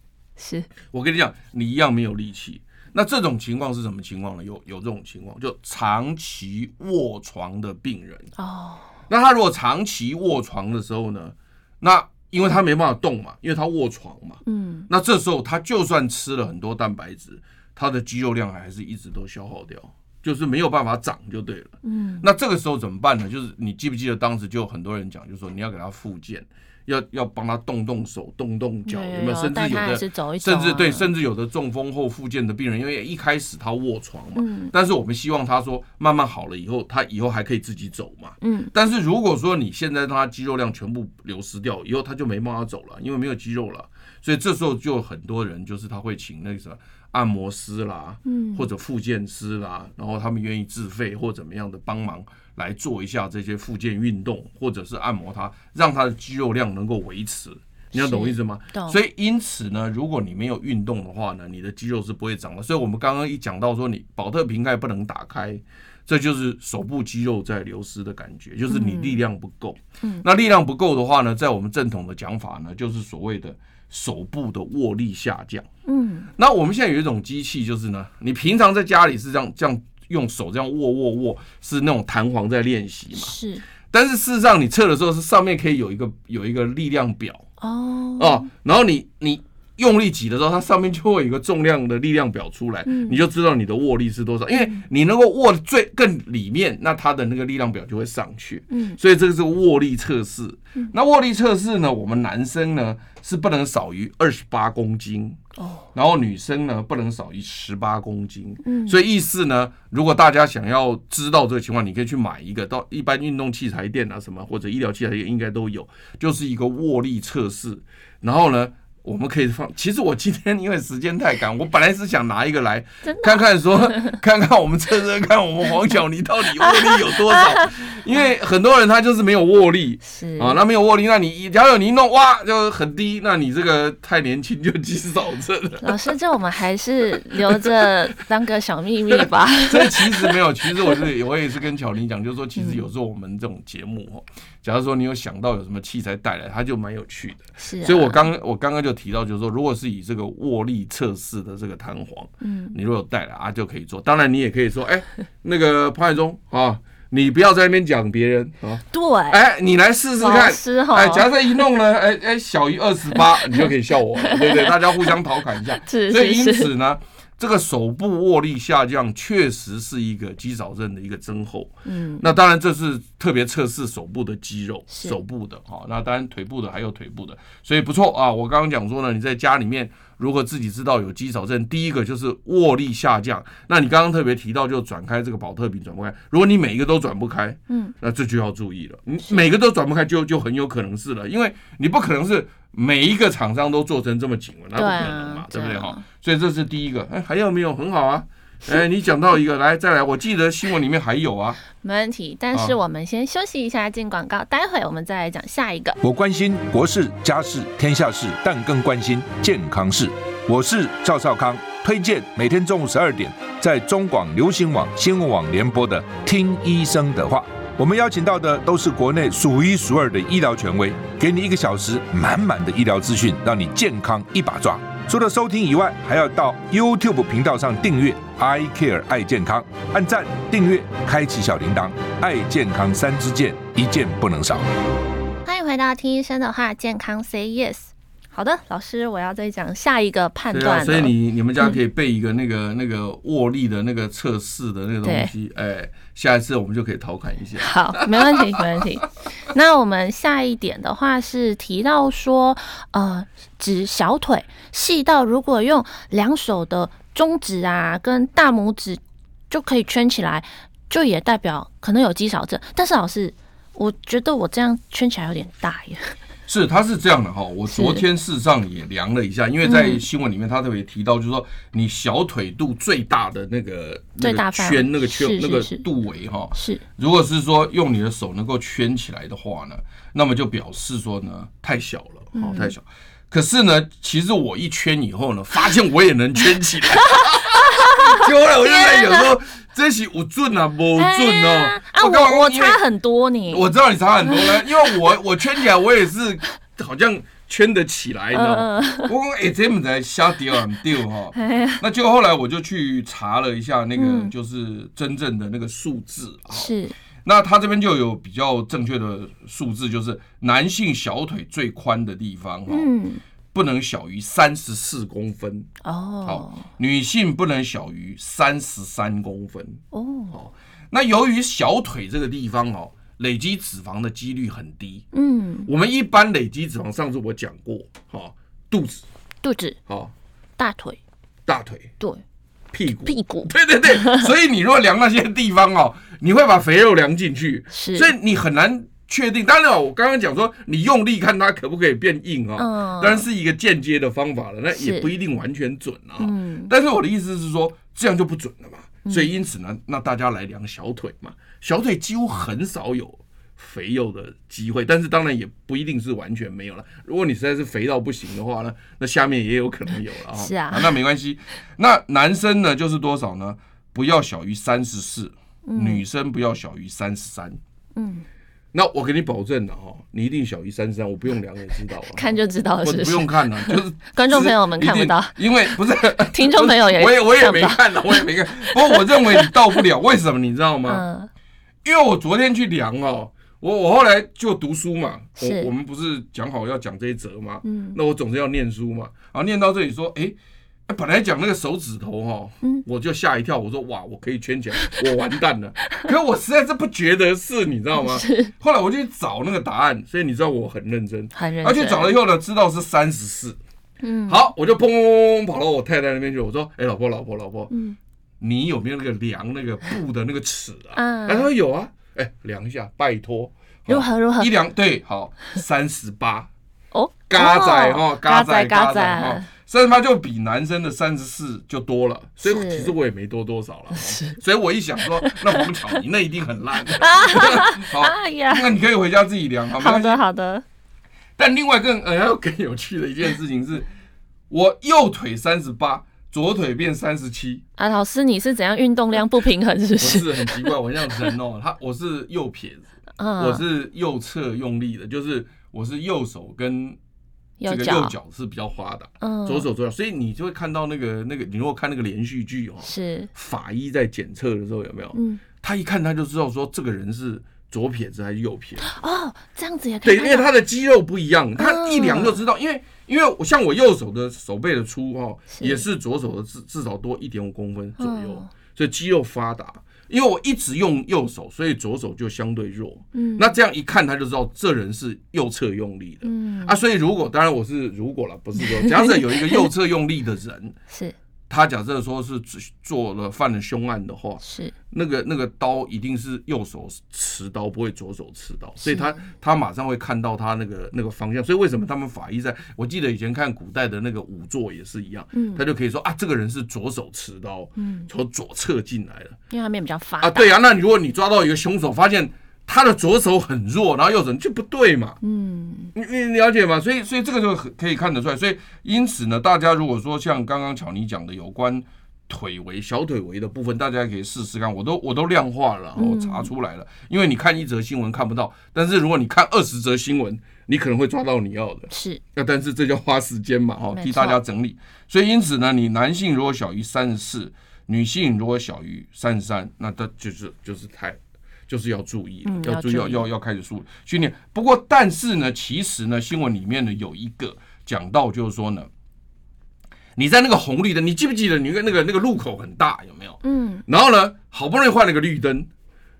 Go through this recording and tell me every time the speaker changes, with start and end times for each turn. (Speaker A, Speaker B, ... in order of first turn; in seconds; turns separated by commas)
Speaker A: 0.4-0.7, Speaker B: 0.9-8.3, Speaker A: 8.4-8.9, Speaker B: 9.1-75.7, Speaker A: 14.4-14.9, Speaker A: 21.8-22.2, Speaker A: 28.9-31.1, Speaker A: 34.4-34.7, Speaker A: 38.4-38.7, Speaker A: 48.2-48.7, Speaker A: 57.9-59.0, Speaker A: 68.7-69.2, Speaker A: 75.9-76.3, Speaker B: 76.4-83.3, Speaker A: 83.1-83.6, Speaker B: 83.9-87.4, Speaker A: 87.6-88.5, Speaker B: 88.2-105.4, Speaker A: 92.9-93.2, Speaker A: 94.5-94.8, Speaker A: 98.7-99.0, Speaker A: 105.6-105.9, Speaker B: 105.9-136.1, Speaker A: 108.6-109.0, Speaker A: 123.0-124.2, Speaker A: 126.7-127.0, Speaker A: 130.0-130.6, Speaker A: 135.8-140.3, Speaker B: 137.5-137.8, Speaker B: 139.1-201.6, Speaker A: 142.6-142.8, Speaker A: 147.6-148.3, Speaker A: 152.4-152.8, Speaker A: 158.9-159.4, Speaker A: 160.2-161.4, Speaker A: 163.3-163.7, Speaker A: 164.3-165.1, Speaker A: 165.7-166.7, Speaker A: 171.9-172.3, Speaker A: 174.9-175.2, Speaker A: 187.7-187.9, Speaker A: 194.8-196.0, Speaker A: 201.7-206.0, Speaker C: 206.0-234.6, Speaker A: 235.4-241.8, Speaker B: 240.5-248.6, Speaker A: 245.0-245.3, Speaker A: 247.6-266.1, Speaker B: 266.5-292.8, Speaker A: 267.7-268.0, Speaker A: 269.6-270.0, Speaker A: 274.2-275.9, Speaker A: 276.5-276.8, Speaker A: 282.4-282.8, Speaker A: 287.0-289.3, Speaker A: 290.9-293.7, Speaker B: 293.5-306.7, Speaker A: 294.3-294.9, Speaker A: 298.3-299.1, Speaker A: 301.4-301.8, Speaker A: 303.9-304.3, Speaker A: 306.5-306.9, Speaker B: 307.2-312.9, Speaker A: 312.7-313.2, Speaker B: 313.5-315.7, Speaker A: 315.8-316.7, Speaker B: 316.2-319.8, Speaker A: 319.9-320.4, Speaker B: 320.3-325.1, Speaker A: 325.1-325.7, Speaker B: 325.6-329.0, Speaker A: 329.4-329.8, Speaker B: 329.9-330.1, Speaker A: 330.6-331.0, Speaker B: 331.4-331.9, Speaker B: 332.7-367.6, Speaker A: 333.1-334.3, Speaker A: 337.7-338.1, Speaker A: 342.6-343.2, Speaker A: 344.7-345.1, Speaker A: 346.2-346.7, Speaker A: 360.4-361.0, Speaker A: 365.6-366.0, Speaker A: 367.9-368.2, Speaker B: 368.7-381.0, Speaker A: 372.1-375.4, Speaker A: 376.2-379.5, Speaker A: 380.9-381.3, Speaker B: 381.8-403.6, Speaker A: 385.4-385.7, Speaker A: 387.6-388.0, Speaker A: 397.9-398.5, Speaker A: 401.3-402.1, Speaker A: 404.0-404.5, Speaker B: 404.3-407.7, Speaker A: 407.7-408.0, Speaker B: 408.4-416.5, Speaker A: 410.9-411.5, Speaker A: 413.9-414.5, Speaker A: 416.9-419.5, Speaker B: 417.3-430.2, Speaker A: 422.4-422.9, Speaker A: 423.9-424.4, Speaker A: 425.0-425.7, Speaker A: 426.9-428.7, Speaker A: 429.8-430.6, Speaker B: 431.4-433.9, Speaker B: 434.5-437.6, Speaker A: 437.8-440.7, Speaker B: 440.0-442.9, Speaker A: 443.2-443.6, Speaker B: 443.4-447.0, Speaker A: 447.6-448.1, Speaker B: 447.6-458.9, Speaker A: 449.2-449.7, Speaker A: 452.8-453.3, Speaker A: 455.1-455.4, Speaker A: 458.8-460.5, Speaker B: 460.0-480.8, Speaker A: 461.6-462.4, Speaker A: 465.5-465.8, Speaker A: 468.0-468.5, Speaker A: 473.1-473.6, Speaker A: 476.2-476.8, Speaker A: 478.6-479.6, Speaker A: 480.9-481.1, Speaker B: 481.5-499.4, Speaker A: 484.4-484.7, Speaker A: 488.8-489.2, Speaker A: 495.3-495.6, Speaker A: 497.8-498.1, Speaker A: 499.5-500.5, Speaker B: 500.2-505.2, Speaker A: 505.2-505.9, Speaker B: 505.9-538.9, Speaker A: 516.0-516.5, Speaker A: 521.9-522.2, Speaker A: 523.9-524.4, Speaker A: 532.4-533.2, Speaker B: 540.1-545.7, Speaker A: 543.4-543.8